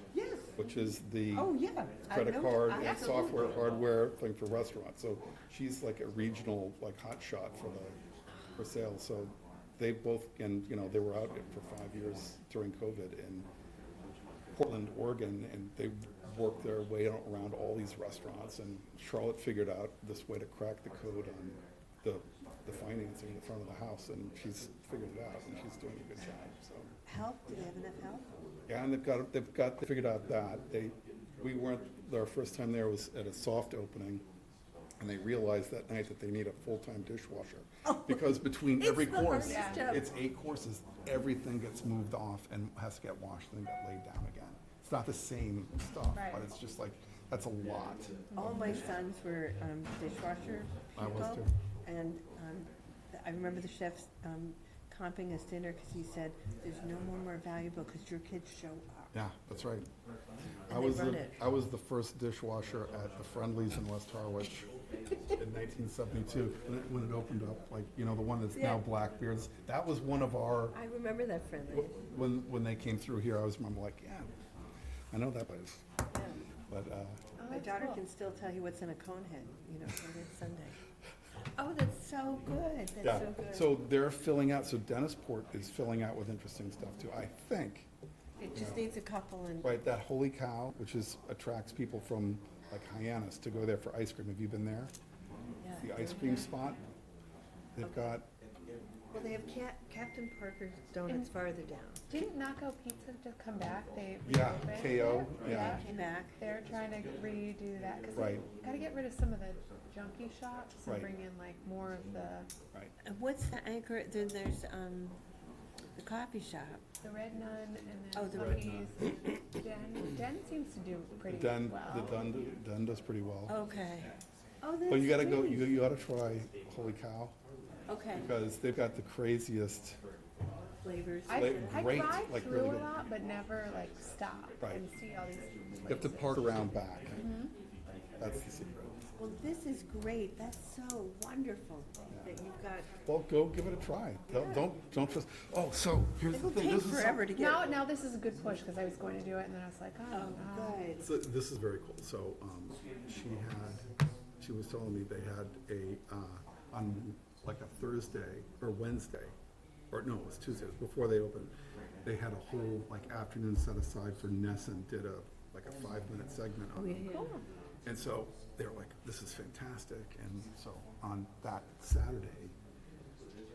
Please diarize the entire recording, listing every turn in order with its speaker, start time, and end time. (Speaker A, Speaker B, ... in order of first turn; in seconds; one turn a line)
Speaker A: 0.1-0.5
Speaker B: 0.6-1.5
Speaker A: 1.3-3.7
Speaker B: 2.1-8.0
Speaker B: 8.6-13.5
Speaker B: 14.5-26.9
Speaker A: 27.1-28.3
Speaker B: 28.7-34.2
Speaker B: 35.0-49.0
Speaker A: 37.9-40.1
Speaker C: 39.4-39.9
Speaker C: 46.1-46.4
Speaker A: 48.3-59.2
Speaker B: 51.0-51.5
Speaker B: 59.1-59.9
Speaker A: 60.7-61.4
Speaker B: 60.7-64.7
Speaker B: 65.3-70.8
Speaker A: 68.5-68.8
Speaker A: 70.7-72.0
Speaker B: 71.7-74.3
Speaker B: 75.1-75.8
Speaker A: 76.1-76.4
Speaker B: 76.7-77.2
Speaker C: 77.4-78.0
Speaker A: 77.5-80.8
Speaker A: 81.6-83.8
Speaker B: 83.0-87.9
Speaker A: 88.4-89.7
Speaker B: 88.5-88.9
Speaker B: 89.6-94.9
Speaker A: 95.6-96.5
Speaker B: 95.8-96.8
Speaker B: 97.8-98.3
Speaker A: 97.8-98.2
Speaker A: 99.1-102.0
Speaker C: 102.1-112.5
Speaker B: 104.2-105.8
Speaker A: 105.4-106.3
Speaker B: 108.2-108.4
Speaker A: 113.0-115.2
Speaker A: 116.0-116.8
Speaker C: 117.0-122.2
Speaker A: 118.2-118.7
Speaker B: 118.3-118.9
Speaker B: 121.3-123.5
Speaker A: 123.5-125.8
Speaker B: 124.9-127.3
Speaker A: 127.9-128.3
Speaker B: 128.2-130.0
Speaker A: 130.8-132.0
Speaker C: 131.3-137.5
Speaker B: 131.3-132.9
Speaker B: 135.9-137.2
Speaker B: 138.2-138.9
Speaker A: 139.2-142.9
Speaker B: 142.1-142.3
Speaker B: 143.1-147.3
Speaker A: 146.3-147.8
Speaker C: 147.3-150.8
Speaker A: 150.1-151.0
Speaker B: 151.0-153.8
Speaker B: 154.4-159.3
Speaker B: 159.9-161.5
Speaker B: 162.0-167.1
Speaker A: 166.8-167.4
Speaker B: 167.8-172.5